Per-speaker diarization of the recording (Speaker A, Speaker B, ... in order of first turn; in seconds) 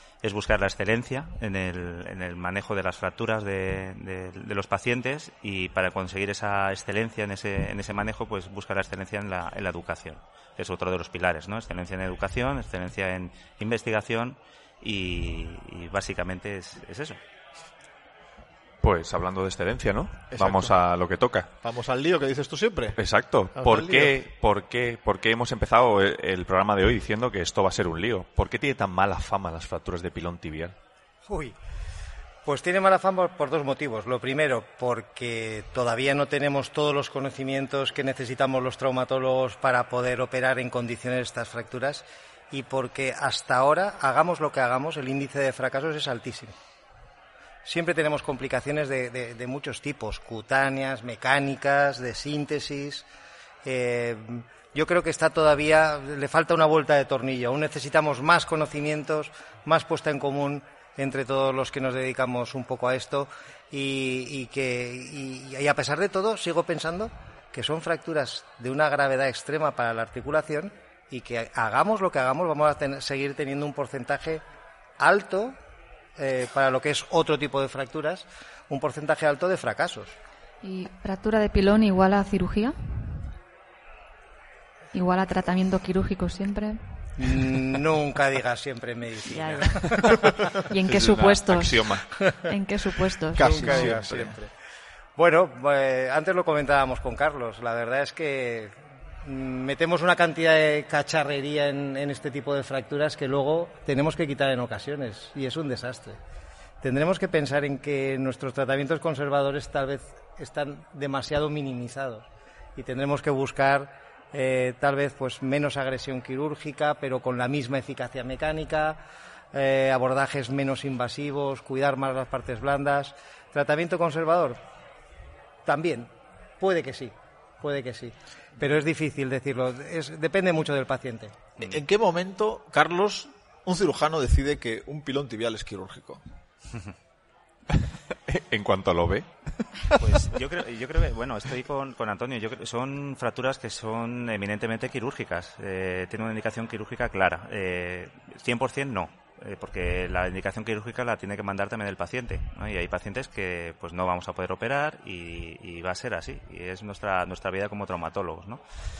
Speaker A: 0.2-17.2, 140.0-158.6
Speaker B: 18.8-21.5, 22.9-30.8, 89.6-90.1, 90.8-92.1, 137.7-140.0
Speaker C: 20.3-20.7, 21.6-23.0, 23.6-24.2, 93.3-94.4, 131.6-136.2
Speaker D: 31.2-31.6, 32.4-46.6, 47.6-53.1, 53.6-74.4, 75.0-75.6, 76.2-80.2, 87.2-90.5, 93.4-94.5, 95.2-106.2, 106.8-119.0, 119.5-124.6, 125.6-131.4
Speaker E: 80.6-83.3, 84.9-87.3, 89.2-94.0